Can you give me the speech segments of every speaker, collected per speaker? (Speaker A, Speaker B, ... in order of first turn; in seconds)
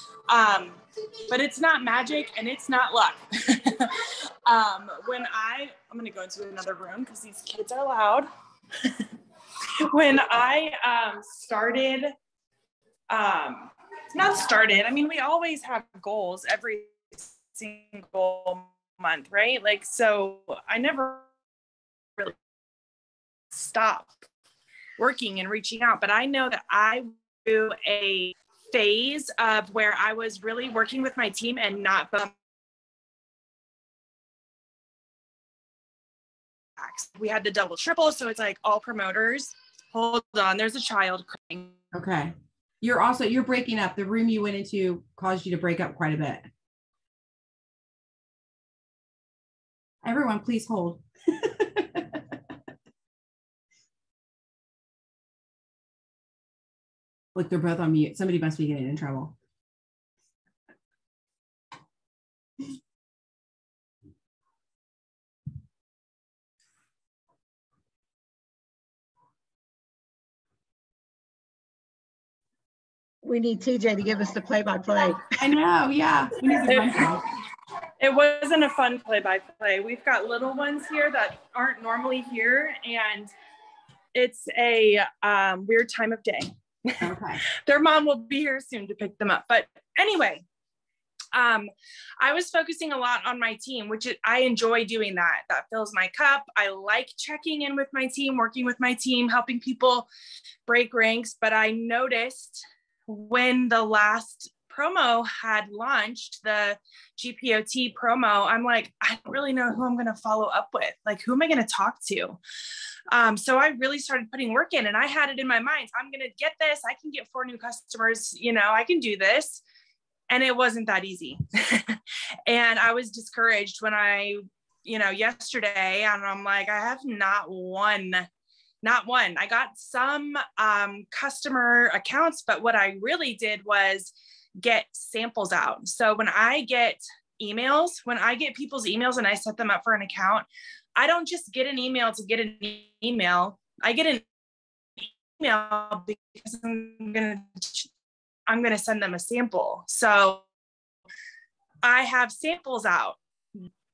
Speaker A: 0.3-8.3, 8.8-9.1, 9.8-12.1, 13.1-21.2, 23.5-24.1, 25.0-32.3, 36.8-41.8, 76.7-77.1, 78.0-83.3, 84.1-87.0, 87.6-90.4, 91.3-100.1, 100.7-112.4, 113.1-119.6, 120.3-128.2, 128.8-140.4, 141.0-144.2, 145.0-147.9, 148.5-150.4, 151.8-153.7
Speaker B: 41.9-46.5, 50.0-52.2, 57.3-59.3, 75.3-77.3, 87.0-87.4
Speaker C: 73.2-75.3